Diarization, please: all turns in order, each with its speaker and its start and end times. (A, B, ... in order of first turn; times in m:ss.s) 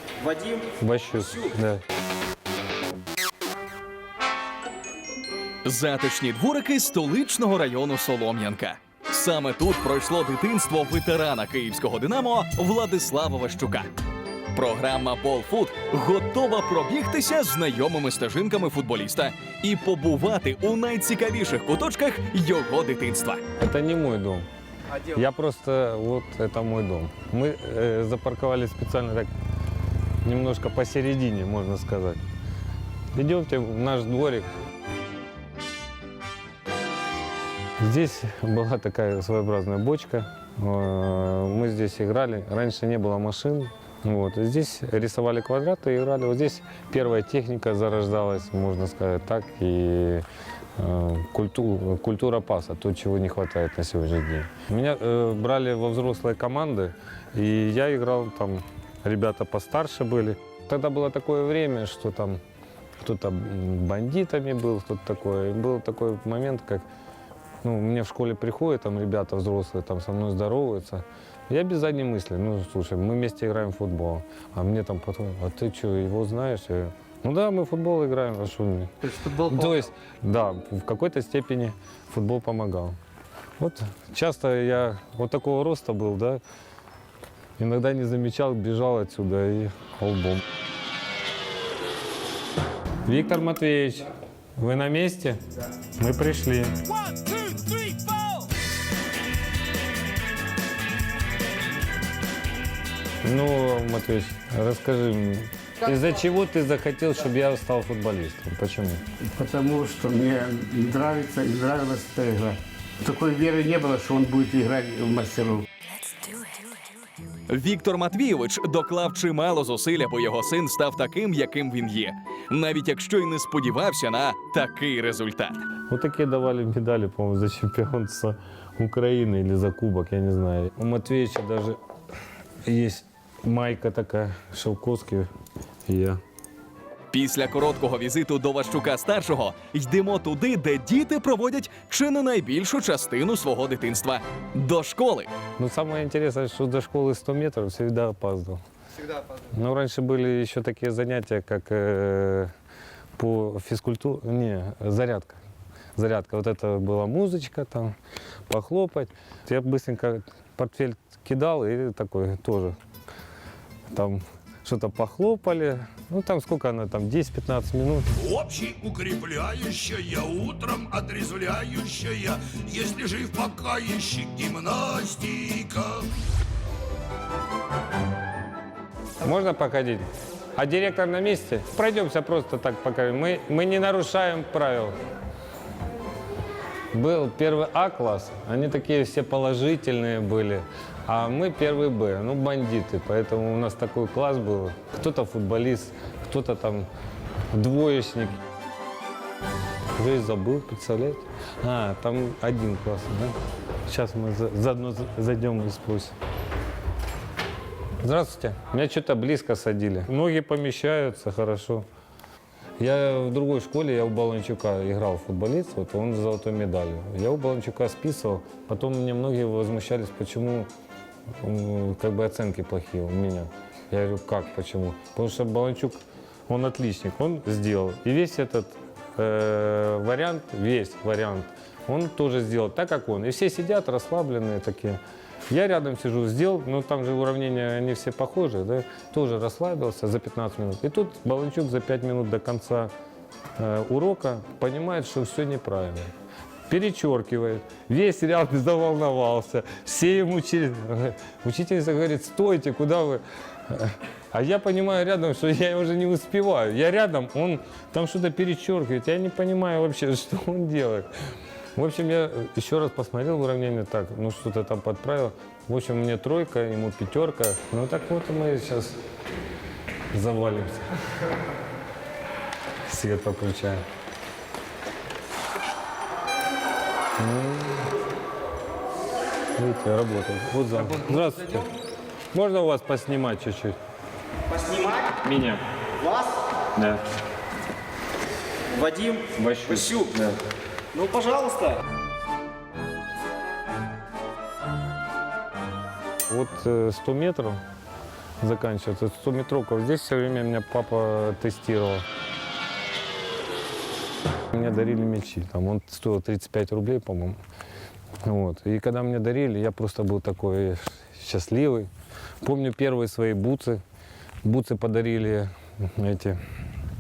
0:00.3-0:00.6 A
0:00.8-0:01.8 B
0:05.6-0:13.9 C
0:14.5-0:23.4 C
0:23.6-0:29.3 B
0:30.2-0:32.2 B
0:33.1-0:34.5 B
0:37.8-0:50.2 B
0:50.8-1:02.4 B
1:03.0-1:06.8 B
1:07.6-1:23.0 B
1:23.6-1:26.4 B
1:27.6-1:30.4 B
1:33.0-1:35.4 B
1:36.0-1:36.7 B
1:37.6-1:37.8 C
1:43.2-1:49.0 B
1:49.2-1:55.6 D
1:57.5-2:05.6 C
2:05.9-2:11.8 B
2:12.6-2:15.3 B
2:15.9-2:16.2 B
2:17.1-2:25.3 C
2:25.6-2:28.6 B
2:29.3-2:32.5 B
2:33.2-2:35.4 B
2:36.0-2:37.9 B
2:38.5-2:42.8 B
2:43.9-2:48.1 B
2:48.2-2:56.0 E
2:59.2-3:00.0 B
3:00.6-3:04.9 B
3:06.9-3:16.9 B
3:17.5-3:18.4 B
3:20.0-3:23.4 B
3:23.9-3:26.1 B
3:28.0-3:31.8 B
3:32.8-3:40.7 B
3:41.4-4:02.9 B
4:03.6-4:06.1 B
4:06.7-4:21.1 B
4:21.8-4:29.0 B
4:30.1-4:30.9 B
4:32.8-4:33.8 B
4:37.2-4:37.9 B
4:39.6-4:41.7 B
4:42.3-4:43.8 B
4:44.5-4:45.0 A
4:45.1-4:45.6 B
4:46.7-4:47.0 B
4:48.8-4:49.2 A
4:49.2-4:50.4 B
4:51.0-4:51.7 A
4:56.3-4:57.6 B
4:58.4-5:02.0 B
5:04.5-5:07.4 B
5:08.2-5:11.9 B
5:12.4-5:13.8 B
5:14.4-5:16.4 B